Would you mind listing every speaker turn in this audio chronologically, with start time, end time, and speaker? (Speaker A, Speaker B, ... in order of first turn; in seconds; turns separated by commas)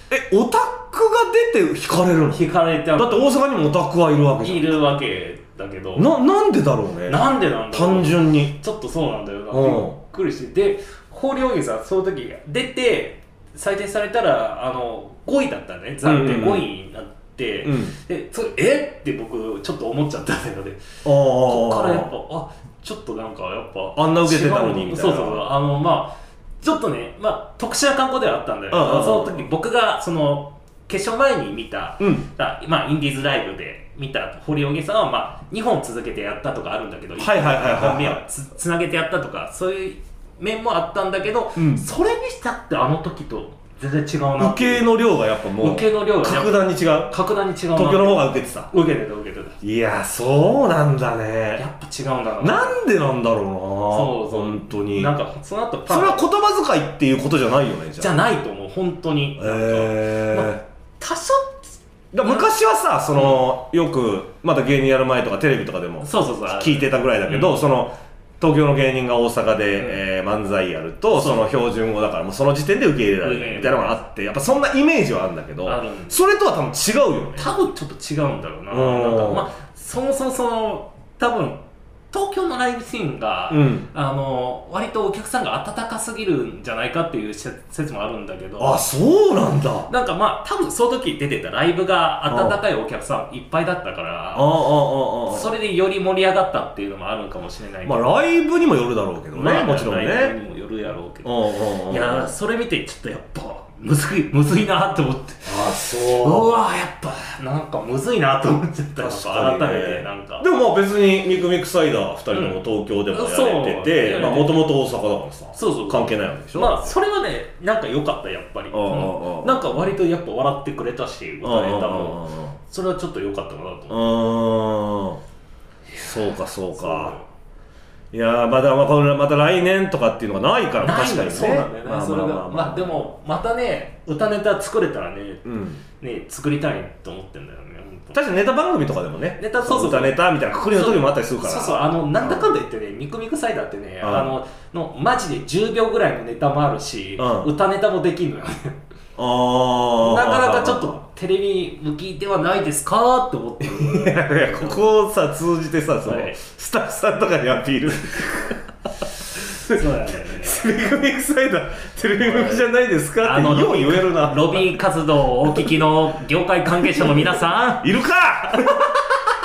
Speaker A: 0.1-2.4, Speaker B: 2.3-3.4, Speaker A: 3.0-4.8, Speaker B: 4.4-6.1, Speaker A: 6.0-8.6, Speaker B: 7.1-44.9, Speaker A: 9.5-10.0, Speaker A: 16.0-16.7, Speaker A: 17.6-17.9, Speaker A: 21.1-22.1, Speaker A: 24.0-25.4, Speaker A: 28.7-29.4, Speaker A: 32.0-32.3, Speaker A: 37.2-38.2, Speaker A: 41.6-41.9, Speaker A: 44.4-47.2, Speaker B: 45.6-49.6, Speaker A: 47.7-48.7, Speaker A: 49.6-51.6, Speaker B: 51.6-52.8, Speaker A: 52.4-55.1, Speaker B: 53.9-56.2, Speaker A: 55.9-58.1, Speaker B: 58.0-62.5, Speaker A: 59.4-60.6, Speaker A: 62.1-77.5, Speaker B: 66.0-67.7, Speaker B: 71.1-71.6, Speaker B: 73.2-74.0, Speaker B: 75.7-76.2, Speaker B: 77.4-81.6, Speaker A: 78.7-79.5, Speaker B: 82.1-88.8, Speaker A: 83.5-83.9, Speaker A: 88.6-89.9, Speaker B: 89.9-94.6, Speaker A: 92.3-92.6, Speaker A: 94.3-95.5, Speaker B: 95.3-98.2, Speaker A: 97.8-100.3, Speaker B: 99.3-101.3, Speaker A: 101.2-102.3, Speaker B: 101.9-110.5, Speaker A: 105.5-106.6, Speaker A: 109.0-116.9, Speaker B: 112.3-114.6, Speaker B: 115.5-124.2, Speaker A: 118.7-119.9, Speaker A: 121.4-122.5, Speaker A: 123.9-125.2, Speaker B: 125.9-127.2, Speaker A: 126.0-127.2, Speaker A: 128.1-133.1, Speaker B: 130.8-135.5, Speaker A: 135.4-135.8, Speaker B: 136.0-138.2, Speaker A: 138.1-142.5, Speaker B: 139.4-140.2, Speaker B: 140.7-148.8, Speaker A: 144.0-144.3, Speaker A: 147.2-147.5, Speaker A: 149.2-151.0, Speaker B: 150.0-154.9, Speaker A: 153.6-158.6, Speaker B: 156.1-156.4, Speaker A: 159.5-164.8, Speaker B: 159.6-160.7, Speaker B: 162.2-162.7, Speaker B: 163.2-167.9, Speaker A: 166.9-169.0, Speaker B: 168.7-168.9